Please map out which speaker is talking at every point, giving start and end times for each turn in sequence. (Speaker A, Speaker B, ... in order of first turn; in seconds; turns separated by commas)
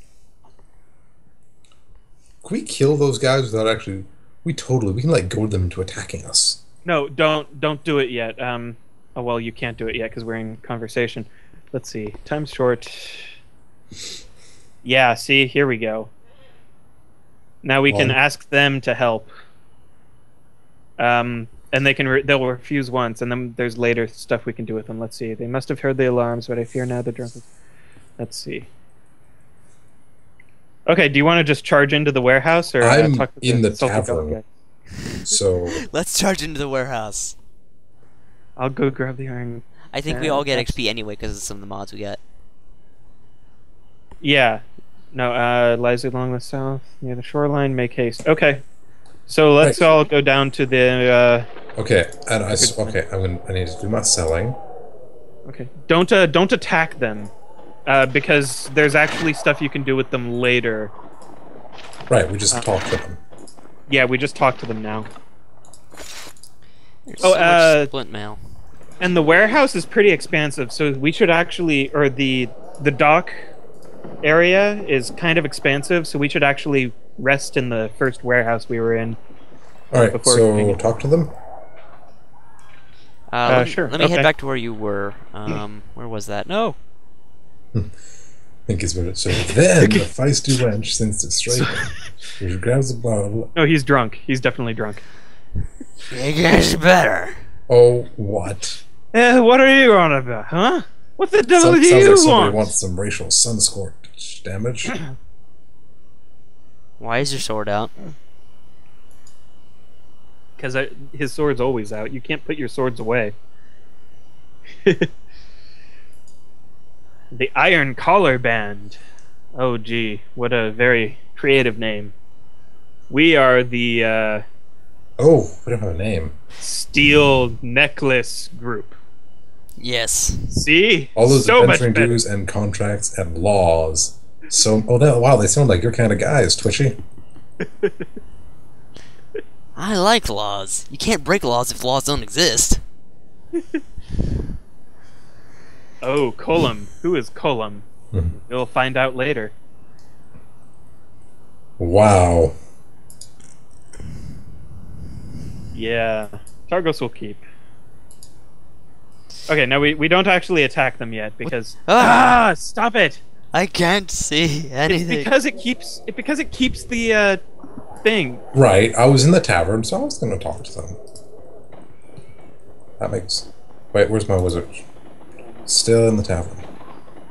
Speaker A: 2.4-6.6, Speaker B: 6.8-13.3, Speaker B: 14.8-16.1, Speaker B: 17.6-19.3, Speaker A: 17.9-18.1, Speaker B: 21.0-27.4, Speaker B: 28.2-28.7, Speaker B: 30.9-34.4, Speaker A: 32.8-34.4, Speaker A: 35.2-35.8, Speaker C: 35.3-37.4, Speaker B: 38.6-40.8, Speaker C: 39.9-42.2, Speaker B: 44.2-48.6, Speaker B: 49.3-51.5, Speaker A: 49.6-49.9, Speaker A: 51.8-54.6, Speaker B: 52.5-53.0, Speaker B: 55.5-57.3, Speaker B: 57.9-60.9, Speaker A: 62.1-63.2, Speaker B: 63.9-65.1, Speaker C: 67.1-68.4, Speaker B: 67.2-67.9, Speaker B: 69.0-73.3, Speaker B: 74.2-79.2, Speaker A: 79.9-81.3, Speaker B: 80.0-80.8, Speaker C: 83.3-86.8, Speaker B: 83.5-84.3, Speaker A: 88.7-93.5, Speaker C: 89.3-90.0, Speaker B: 91.5-91.9, Speaker B: 93.5-95.0, Speaker C: 96.1-97.4, Speaker A: 97.7-98.8, Speaker B: 99.1-102.7, Speaker A: 101.5-105.0, Speaker C: 107.0-107.9, Speaker B: 110.6-113.3, Speaker B: 117.3-119.0, Speaker B: 119.5-122.1, Speaker B: 123.1-124.4, Speaker A: 125.2-126.3, Speaker B: 126.6-129.0, Speaker C: 129.8-130.5, Speaker B: 130.5-132.2, Speaker A: 131.2-137.0, Speaker C: 139.8-142.8, Speaker B: 146.0-149.5, Speaker A: 151.8-152.5, Speaker B: 155.7-157.4, Speaker B: 159.5-163.2, Speaker C: 161.4-162.4, Speaker C: 163.5-165.3, Speaker B: 164.9-167.4, Speaker B: 168.0-168.4, Speaker A: 168.5-171.0, Speaker A: 173.0-174.8, Speaker A: 175.7-176.6